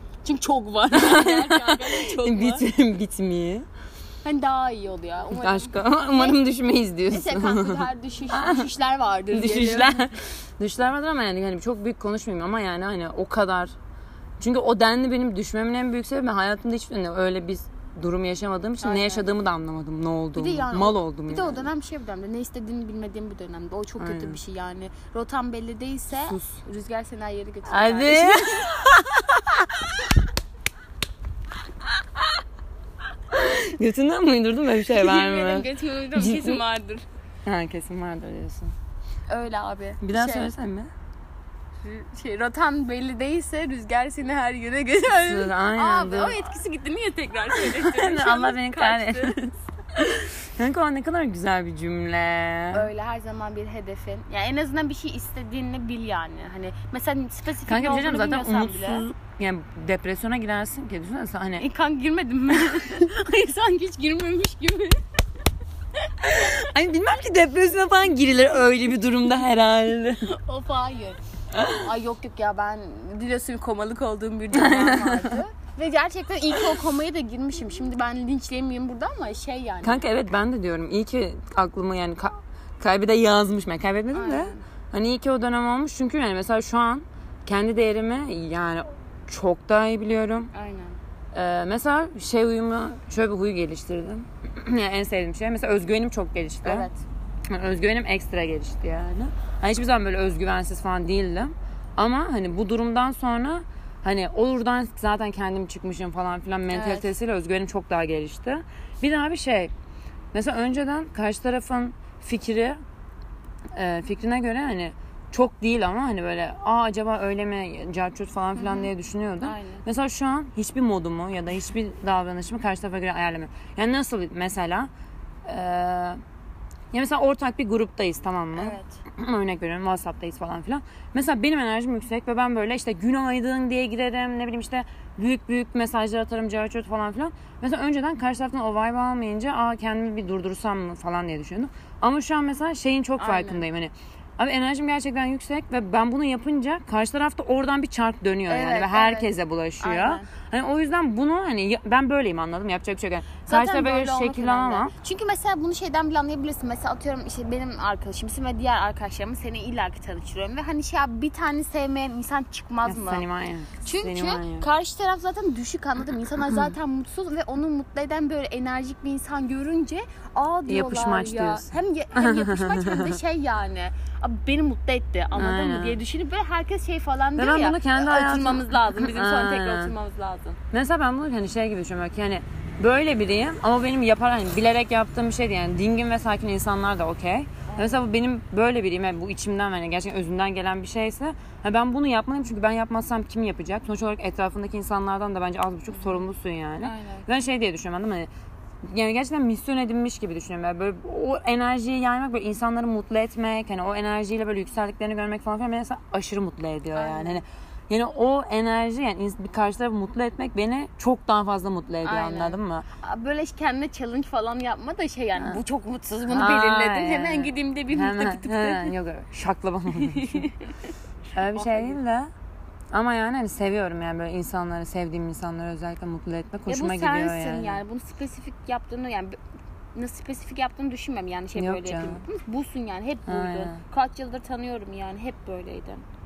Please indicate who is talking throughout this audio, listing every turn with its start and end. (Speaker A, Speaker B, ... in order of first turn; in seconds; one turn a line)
Speaker A: 0.2-2.6
Speaker B: 0.9-3.7
Speaker A: 4.2-6.4
Speaker B: 5.3-8.7
Speaker A: 7.1-10.0
Speaker B: 9.3-13.7
Speaker B: 14.4-21.7
Speaker A: 18.8-19.3
Speaker A: 20.4-28.8
Speaker B: 24.0-24.4
Speaker B: 27.6-29.7
Speaker B: 33.3-36.6
Speaker A: 34.8-37.0
Speaker B: 37.5-38.7
Speaker A: 39.3-40.5
Speaker B: 40.0-40.9
Speaker A: 41.8-49.3
Speaker B: 45.2-46.4
Speaker B: 47.6-52.9
Speaker A: 52.7-59.0
Speaker B: 57.7-61.7
Speaker A: 61.6-65.0
Speaker B: 66.2-70.3
Speaker A: 70.2-80.1
Speaker B: 71.5-71.8
Speaker B: 74.5-75.4
Speaker B: 79.8-90.5
Speaker A: 84.1-84.6
Speaker A: 90.5-91.0
Speaker B: 91.3-96.9
Speaker A: 96.6-97.0
Speaker B: 97.5-109.7
Speaker A: 106.7-107.1
Speaker B: 110.3-112.8
Speaker B: 113.7-124.9
Speaker A: 118.6-118.9
Speaker A: 119.4-119.8
Speaker B: 125.4-126.2
Speaker B: 126.9-154.9
Speaker A: 128.5-129.0
Speaker A: 143.2-143.7
Speaker A: 148.5-149.3
Speaker A: 149.8-150.3
Speaker A: 153.5-163.2
Speaker B: 162.8-164.7
Speaker A: 163.8-180.6
Speaker B: 170.7-173.2
Speaker B: 175.3-176.0
Speaker B: 177.4-179.9
Speaker B: 180.7-198.3
Speaker A: 187.7-188.1
Speaker A: 195.9-196.2
Speaker A: 196.8-197.3
Speaker B: 198.8-212.8
Speaker A: 206.9-207.4
Speaker A: 212.0-218.9
Speaker B: 216.3-220.5
Speaker A: 219.9-220.9
Speaker B: 221.3-222.3
Speaker A: 221.5-222.0
Speaker B: 222.9-227.8
Speaker A: 226.7-229.3
Speaker A: 229.9-236.0
Speaker B: 231.6-232.2
Speaker B: 233.3-233.8